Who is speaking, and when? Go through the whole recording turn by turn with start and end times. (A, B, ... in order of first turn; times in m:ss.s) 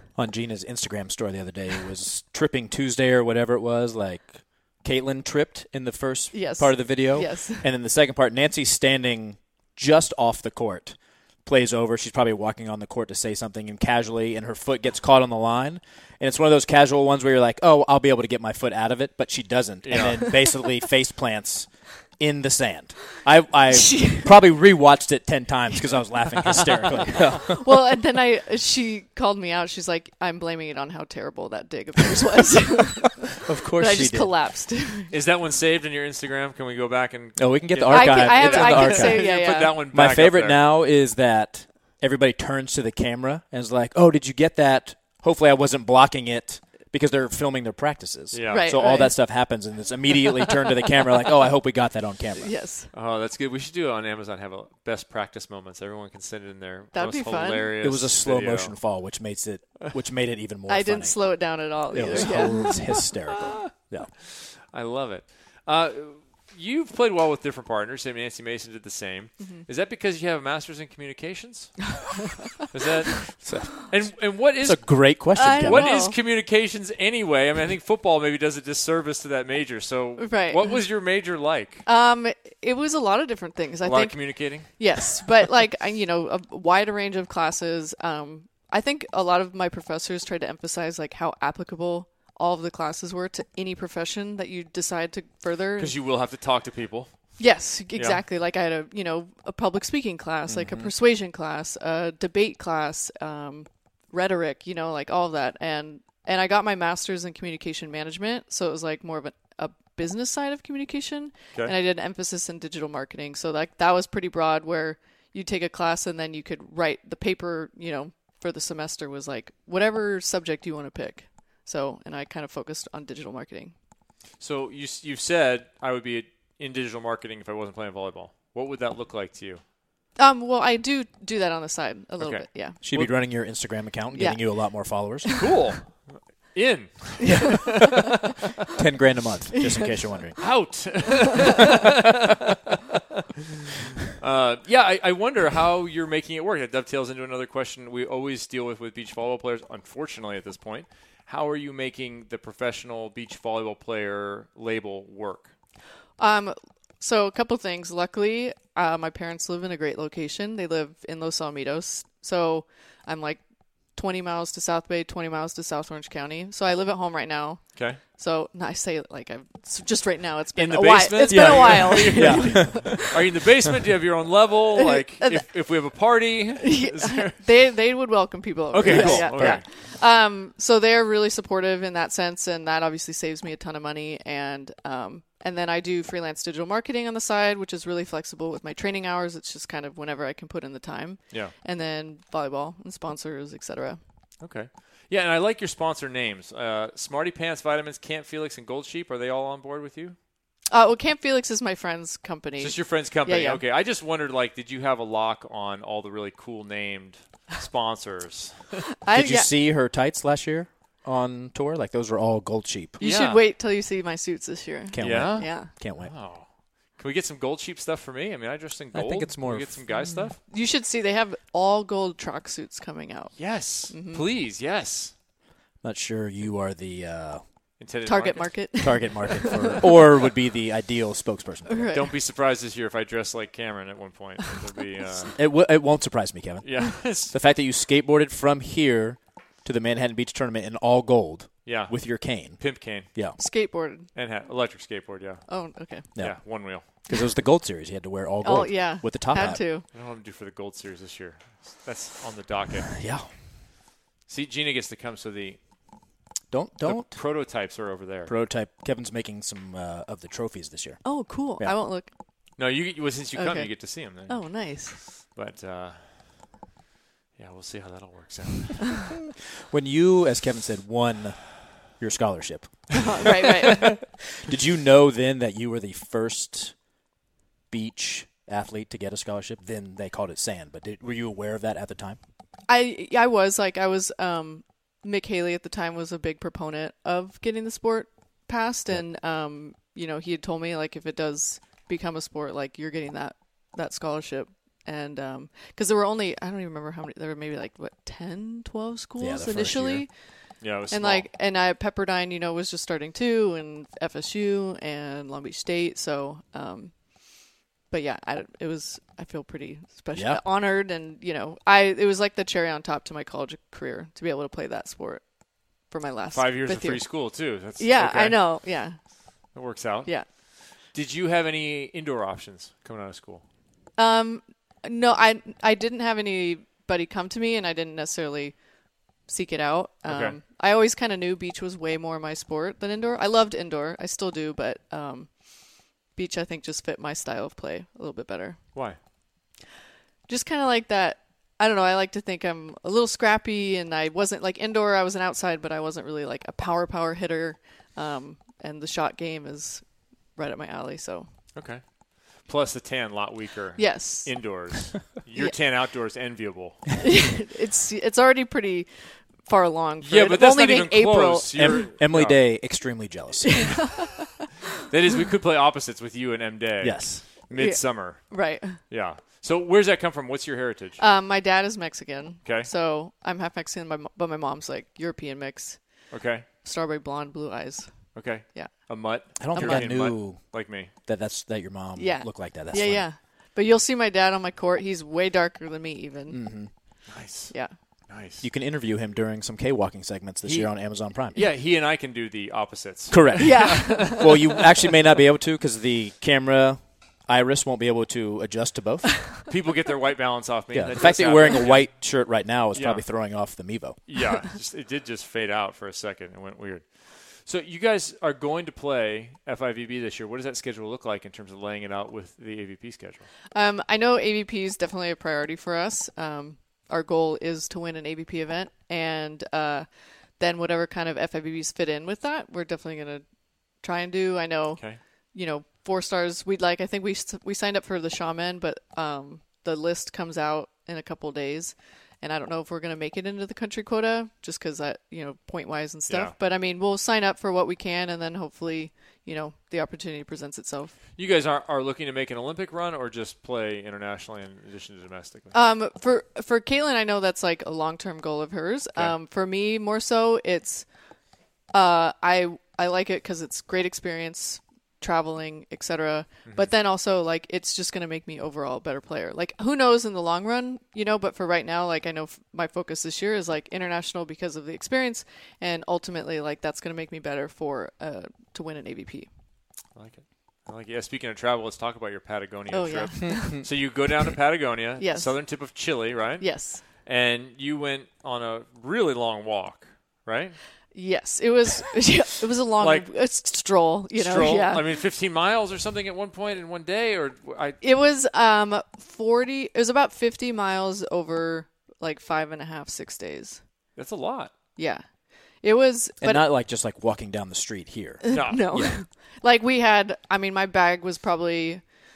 0:00.1-0:27.8 A
0:06.3-0:07.7 B
0:19.8-0:20.2 C
0:23.7-0:24.4 B
0:27.1-0:35.1 B
0:33.4-0:34.3 A
0:35.1-0:40.7 C
0:37.4-0:52.5 A
0:37.9-0:39.8 B
0:48.3-0:48.7 C
0:48.5-0:49.2 B
0:52.4-0:52.9 B
0:52.9-0:58.8 C
0:56.9-0:57.7 B
0:57.8-1:04.1 A
1:00.7-1:02.9 B
1:02.0-1:02.7 C
1:04.3-1:11.8 C
1:09.4-1:09.6 B
1:12.7-1:21.8 C
1:13.4-1:15.9 A
1:15.4-1:16.2 B
1:20.2-1:20.8 B
1:21.9-1:36.0 B
1:23.8-1:24.7 C
1:35.8-1:37.1 C
1:37.4-2:03.7 B
1:38.0-1:38.2 C
1:40.5-1:40.9 A
2:04.4-2:09.6 C
2:10.2-2:12.8 B
2:12.2-2:13.1 C
2:12.8-2:15.4 A
2:14.1-2:15.5 B
2:15.4-2:18.1 C
2:17.2-2:18.2 A
2:18.7-2:20.9 A
2:19.6-2:20.0 B
2:20.4-2:22.4 C
2:24.2-2:35.5 C
2:36.2-2:43.4 B
2:44.0-2:53.1 B
2:50.6-2:57.4 C
2:51.3-2:53.1 A
2:54.8-2:55.5 B
2:56.6-3:14.0 B
2:58.7-2:59.6 C
2:58.8-2:59.6 A
3:14.4-3:20.2 C
3:20.7-3:23.6 B
3:22.6-3:28.8 C
3:29.0-3:29.5 B
3:29.1-3:33.0 A
3:33.0-3:35.7 B
3:33.0-3:33.4 C
3:34.9-3:36.1 A
3:35.0-3:40.4 C
3:38.9-3:40.2 A
3:40.0-3:44.3 B
3:43.4-3:45.1 C
3:45.8-3:47.4 A
3:47.8-3:48.6 C
3:48.0-3:50.0 B
3:48.8-3:51.9 A
3:51.7-3:52.2 B
3:51.9-3:55.3 C
3:55.3-4:03.4 A
3:56.6-3:57.4 C
4:01.7-4:03.1 C
4:03.4-4:04.1 B
4:04.1-4:05.4 C
4:05.5-4:06.1 B
4:06.2-4:09.6 A
4:06.2-4:06.8 C
4:08.4-4:09.8 B
4:09.9-4:12.9 C
4:12.9-4:13.3 A
4:14.3-4:15.6 C
4:16.5-4:17.2 A
4:16.8-4:18.3 C
4:18.3-4:21.0 A
4:21.0-4:22.1 B
4:22.6-4:24.4 C
4:23.4-4:25.0 B
4:25.0-4:26.5 C
4:27.4-4:29.0 C
4:29.5-4:36.7 A
4:32.9-4:34.0 B
4:37.7-4:42.2 A
4:42.7-5:00.1 B
4:59.2-5:00.0 A
5:00.6-5:01.3 C
5:00.9-5:06.9 B
5:07.9-5:15.2 B
5:10.1-5:10.4 A
5:15.9-5:19.0 B
5:16.3-5:18.4 C
5:19.5-5:20.1 C
5:20.9-5:23.4 C
5:24.0-5:28.6 B
5:29.3-5:35.3 B
5:30.1-5:30.4 C
5:36.2-5:38.6 B
5:40.3-5:49.8 B
5:50.4-5:51.3 B
5:51.6-5:51.8 C
5:52.3-5:56.8 C
5:53.8-5:54.6 B
5:57.0-6:01.9 B
6:00.0-6:02.4 C
6:01.6-6:03.8 A
6:03.5-6:04.3 B
6:04.9-6:11.0 C
6:06.8-6:07.2 A
6:07.5-6:08.8 B
6:11.0-6:15.8 B
6:16.1-6:16.4 C
6:16.6-6:17.9 B
6:18.1-6:20.9 C
6:18.4-6:18.7 B
6:19.4-6:23.1 A
6:19.5-6:20.0 B
6:22.0-6:26.4 B
6:26.3-6:26.7 A
6:27.1-6:27.5 C
6:28.1-6:28.5 C
6:28.4-6:31.4 A
6:30.4-6:34.6 C
6:33.1-6:39.4 A
6:33.4-6:34.4 B
6:39.5-6:42.0 C
6:40.7-6:44.0 A
6:42.7-6:43.0 C
6:44.1-6:53.3 C
6:53.5-6:59.9 B
7:00.4-7:03.2 B
7:03.8-7:04.8 B
7:05.3-7:21.0 B
7:16.1-7:16.4 C
7:21.2-7:25.5 C
7:25.5-7:30.9 B
7:31.7-7:49.3 B
7:36.4-7:36.7 C
7:50.0-8:00.6 C
7:52.7-7:53.7 B
7:53.2-7:53.6 A
7:55.0-7:55.4 B
7:56.4-7:56.8 B
8:00.9-8:04.8 B
8:02.8-8:03.1 C
8:04.1-8:07.8 C
8:07.8-8:13.6 B
8:14.0-8:14.5 C
8:14.8-8:15.0 B
8:15.6-8:16.5 B
8:16.2-8:19.0 A
8:18.2-8:21.8 B
8:18.3-8:18.6 C